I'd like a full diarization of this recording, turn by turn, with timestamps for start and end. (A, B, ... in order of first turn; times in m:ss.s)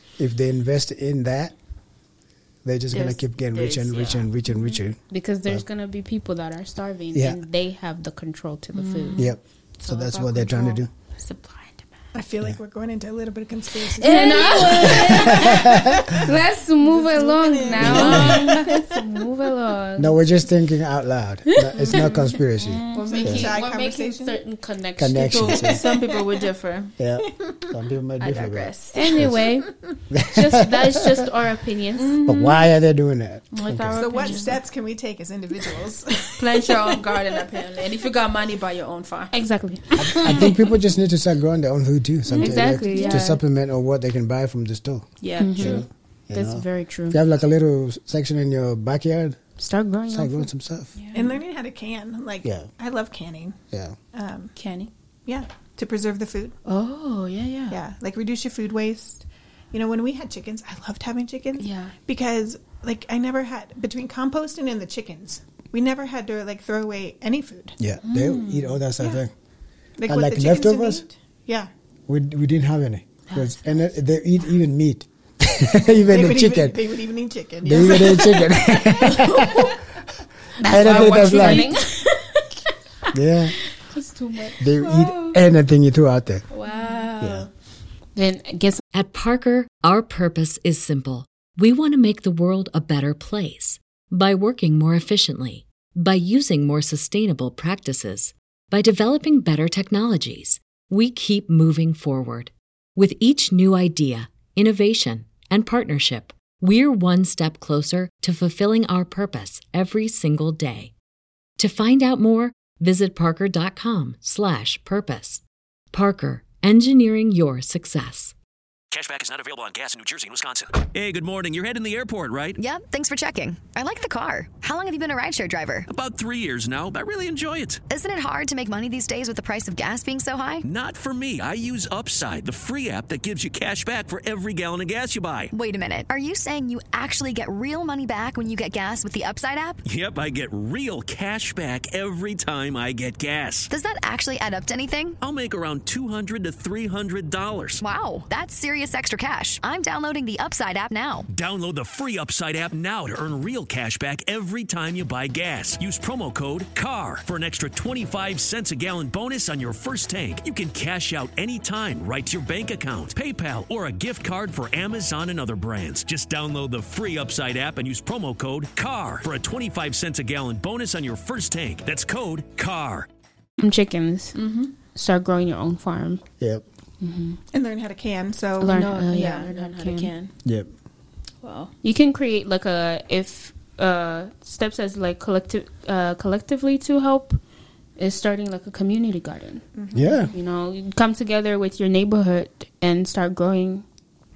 0:00.2-0:01.5 A
0:02.6-0:05.6 A
0:02.9-0:04.8 B
0:05.1-0:09.2 C
0:07.1-0:07.4 A
0:08.7-0:11.9 B
0:09.2-0:10.9 A
0:12.1-0:16.2 D
0:13.9-0:15.8 B
0:14.0-0:20.5 C
0:14.9-0:16.1 A
0:16.8-0:18.8 D
0:17.8-0:18.8 B
0:17.8-0:18.5 A
0:20.0-0:23.5 A
0:21.8-0:23.5 B
0:21.8-0:22.2 C
0:22.9-0:25.8 C
0:23.2-0:24.4 D
0:25.0-0:25.8 A
0:25.2-0:27.0 B
0:27.0-0:29.4 A
0:27.3-0:27.6 D
0:28.2-0:29.4 B
0:28.9-0:29.7 C
0:30.1-0:31.2 A
0:30.2-0:32.2 C
0:31.9-0:32.7 B
0:32.2-0:34.1 A
0:33.5-0:34.6 B
0:33.9-0:37.4 D
0:36.4-0:40.7 B
0:39.3-0:40.5 C
0:40.0-0:49.4 A
0:42.3-0:43.4 B
0:42.4-0:43.4 C
0:45.2-0:45.8 B
0:45.4-0:47.2 C
0:49.6-0:50.5 C
0:50.1-0:50.9 A
0:50.9-0:51.4 B
0:51.1-0:53.6 D
0:52.4-0:52.7 A
0:53.7-0:54.0 A
0:54.1-0:54.5 D
0:54.6-0:54.9 B
0:55.2-0:56.6 D
0:56.6-0:57.8 B
0:57.7-1:07.8 D
1:01.6-1:01.9 B
1:07.8-1:09.3 A
1:08.0-1:09.1 B
1:10.0-1:11.7 D
1:10.0-1:11.0 A
1:12.1-1:17.0 A
1:13.3-1:13.6 B
1:16.1-1:18.7 D
1:17.6-1:19.8 A
1:19.0-1:19.8 B
1:20.6-1:22.1 C
1:20.6-1:21.7 A
1:20.6-1:22.4 B
1:23.1-1:23.6 A
1:23.9-1:24.6 C
1:24.4-1:25.4 B
1:24.6-1:26.4 A
1:26.5-1:27.5 B
1:26.7-1:27.0 C
1:27.2-1:27.5 A
1:28.1-1:28.8 C
1:28.9-1:50.9 E
1:51.6-1:58.3 E
1:58.9-2:02.6 F
2:02.6-2:05.9 G
2:05.9-2:07.8 F
2:07.9-2:10.6 G
2:10.6-2:15.5 F
2:15.5-2:19.8 G
2:19.8-2:23.7 F
2:23.7-2:25.2 G
2:25.2-2:27.8 F
2:27.8-2:31.3 G
2:31.3-2:53.1 F
2:53.6-2:56.2 C
2:54.3-2:54.7 B
2:56.4-2:56.6 A
2:57.0-2:57.4 C
2:57.5-2:58.8 D
2:58.6-3:00.1 C
2:58.6-3:00.3 B
3:00.4-3:00.7 A
3:01.4-3:01.7 B
3:01.8-3:07.4 C
3:08.0-3:09.6 C
3:09.7-3:10.2 D
3:09.9-3:10.3 A
3:10.3-3:13.8 C